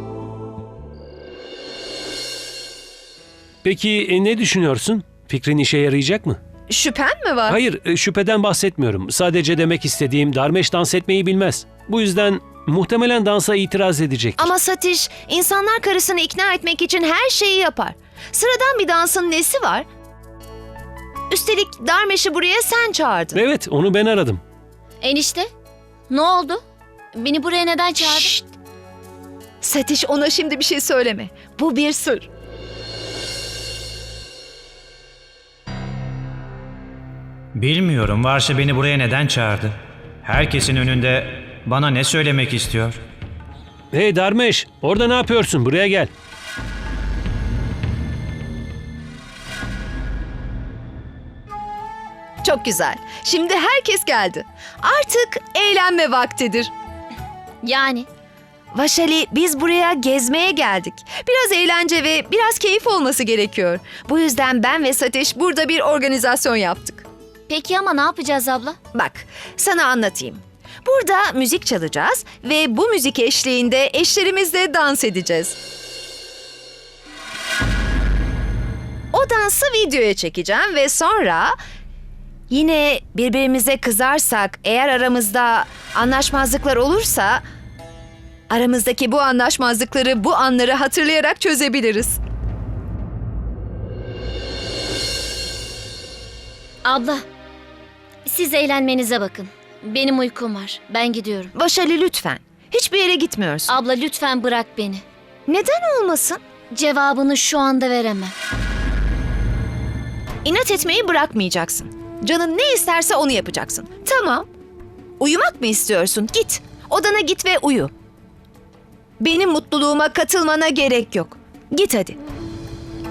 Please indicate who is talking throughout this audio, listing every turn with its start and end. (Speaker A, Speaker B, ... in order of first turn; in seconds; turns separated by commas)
Speaker A: 3.6-6.4, Speaker B: 6.7-7.6, Speaker A: 7.5-14.5, Speaker B: 14.4-19.9, Speaker B: 21.3-23.4, Speaker A: 23.3-24.4, Speaker C: 25.0-25.5, Speaker C: 26.1-26.6, Speaker C: 27.1-28.4, Speaker B: 28.0-28.3, Speaker B: 29.6-32.3, Speaker D: 37.5-43.0, Speaker A: 43.9-46.1, Speaker B: 52.4-56.7, Speaker C: 57.6-58.1, Speaker B: 58.7-67.0, Speaker C: 67.5-68.8, Speaker B: 68.9-75.6, Speaker B: 79.1-81.6, Speaker B: 82.5-87.4, Speaker B: 88.5-92.2, Speaker C: 96.8-97.2, Speaker C: 98.3-101.5, Speaker B: 101.5-103.7, Speaker C: 103.7-105.0, Speaker B: 105.5-106.4, Speaker C: 106.7-108.3, Speaker B: 110.4-114.5, Speaker B: 115.2-117.9, Speaker B: 119.2-122.2